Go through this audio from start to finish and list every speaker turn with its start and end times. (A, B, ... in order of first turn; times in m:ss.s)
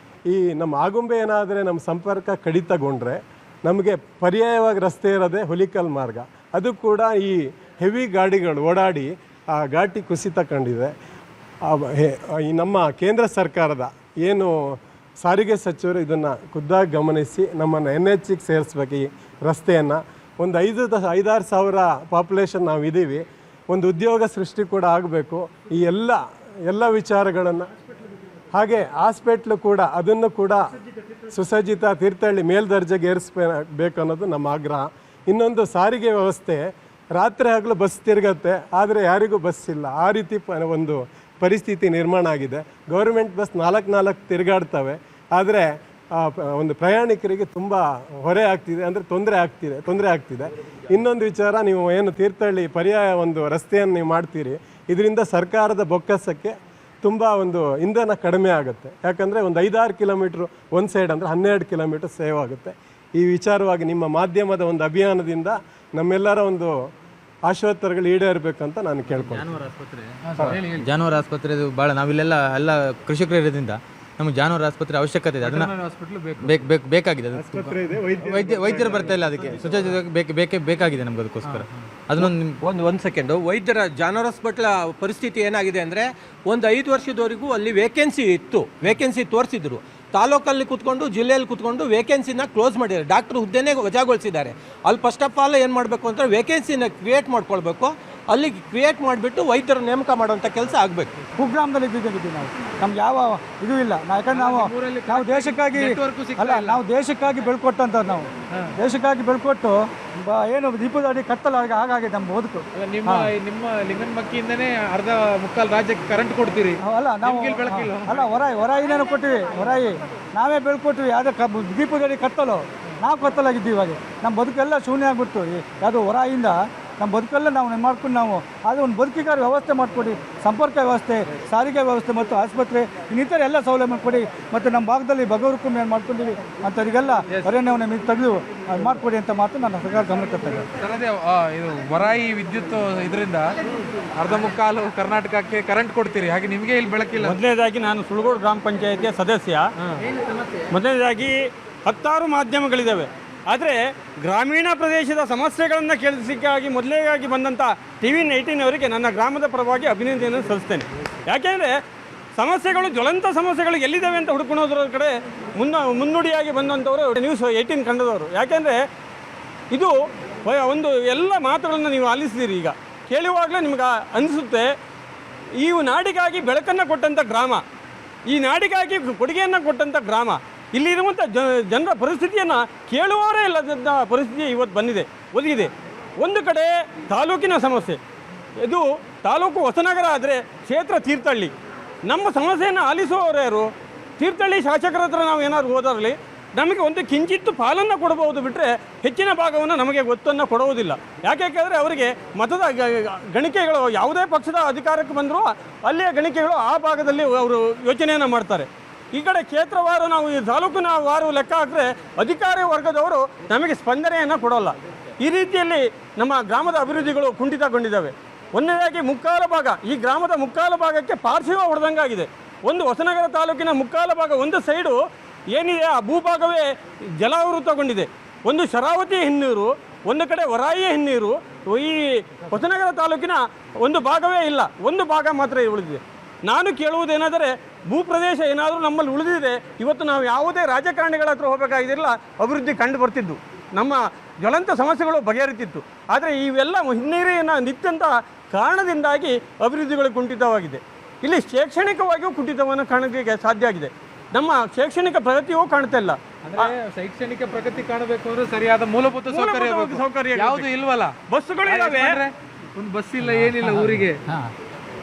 0:00.3-0:10.9 A
0:11.6-0:14.5 A
0:15.2-0:27.7 A
0:28.5-0:30.6 A
0:31.3-1:06.7 A
1:07.5-1:09.5 A
1:09.2-1:10.1 B
1:10.2-1:10.9 C
1:10.8-1:15.7 B
1:15.4-1:16.6 C
1:16.4-1:22.6 B
1:17.3-1:19.9 A
1:21.4-1:21.7 C
1:22.2-1:41.1 D
1:41.4-1:45.8 E
1:44.3-1:46.8 C
1:46.4-1:48.2 E
1:48.8-1:49.7 E
1:50.3-1:53.2 E
1:52.7-1:58.2 C
1:56.8-2:20.6 E
2:20.8-2:23.5 C
2:24.1-2:27.4 C
2:27.2-2:29.7 F
2:30.7-2:41.7 F
2:42.4-2:48.8 F
2:49.7-2:54.6 F
2:55.6-2:57.6 F
2:58.3-3:05.7 F
3:06.2-3:08.0 F
3:08.6-3:11.5 F
3:12.1-3:45.0 F
3:45.5-3:46.6 F
3:47.2-4:16.7 F
4:16.4-4:24.2 C
4:19.3-4:20.7 F
4:21.3-4:22.2 F
4:23.2-4:24.5 B